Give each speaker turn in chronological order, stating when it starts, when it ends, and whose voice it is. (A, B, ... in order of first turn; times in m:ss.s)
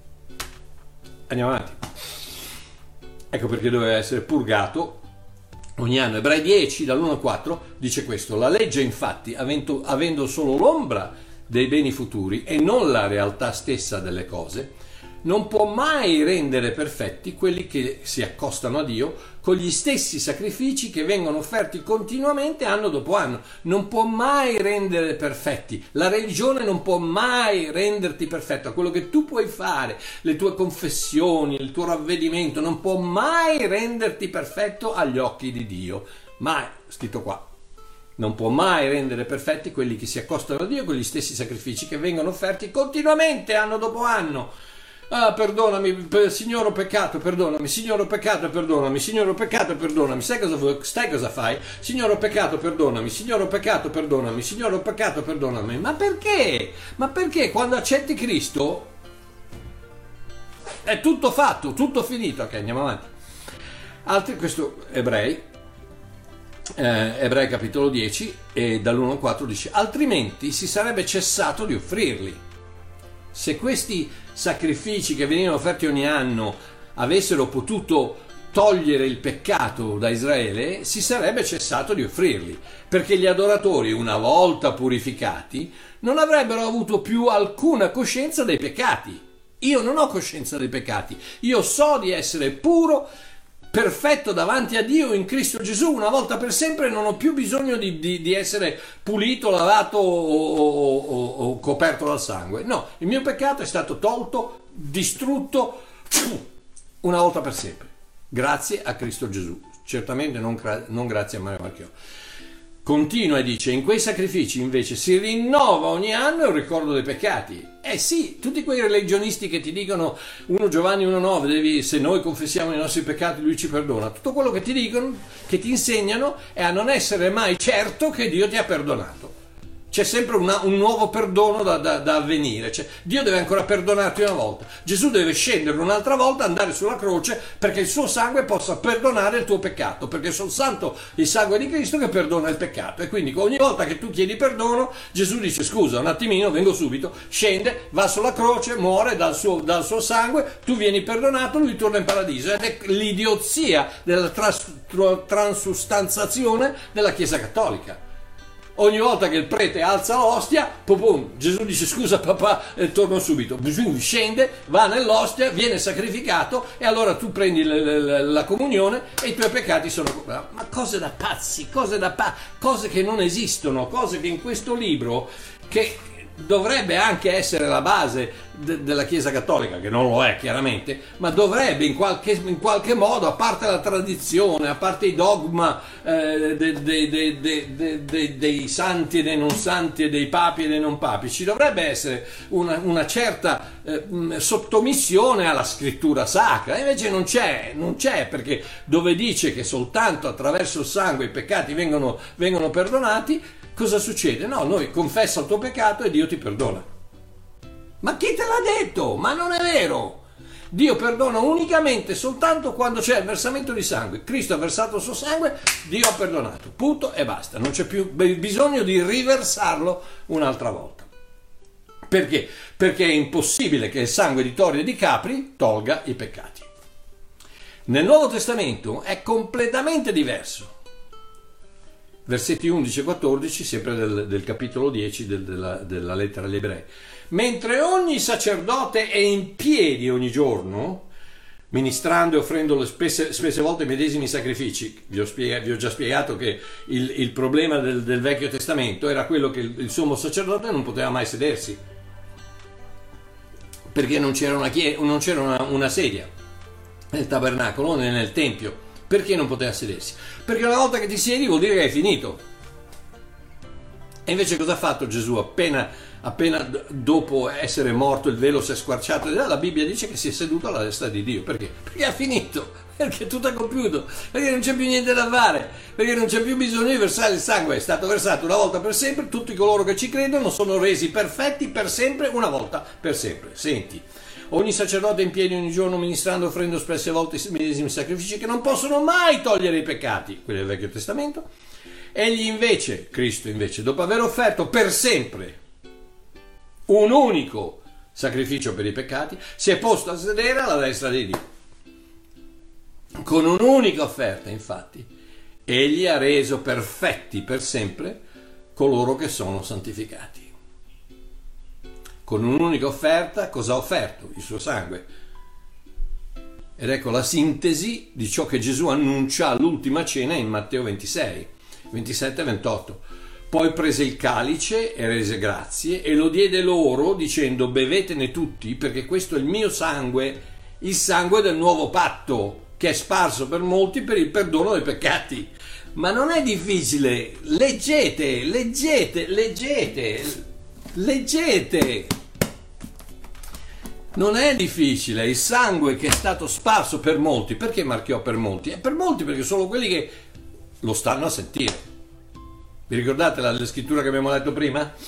0:01.3-0:01.8 A
0:03.3-0:05.0 A
0:05.8-0:14.7 A
0:15.2-0:37.4 A
0:38.2-0:44.5 A
0:45.1-0:58.9 A
1:00.8-1:03.1 A
1:04.0-1:05.4 A
1:06.8-1:12.4 A
1:13.3-1:33.1 A
1:33.7-1:46.4 A
1:47.0-1:51.9 A
1:52.8-2:09.3 A
2:09.9-2:38.0 A
2:38.8-3:26.8 A
3:28.0-3:41.1 A
3:42.1-3:46.7 A
3:47.9-3:50.7 A
3:52.3-4:01.1 A
4:01.7-4:11.8 A
4:13.9-4:16.3 A
4:17.1-4:22.4 A
4:24.3-4:51.5 A
4:52.1-4:55.6 A
4:56.9-5:01.4 A
5:03.2-5:05.1 A
5:05.7-5:08.2 A
5:08.8-5:10.5 A
5:12.3-5:15.1 A
5:16.8-5:42.1 A
5:44.2-5:50.1 A
5:50.8-5:51.8 A
5:52.9-5:54.9 A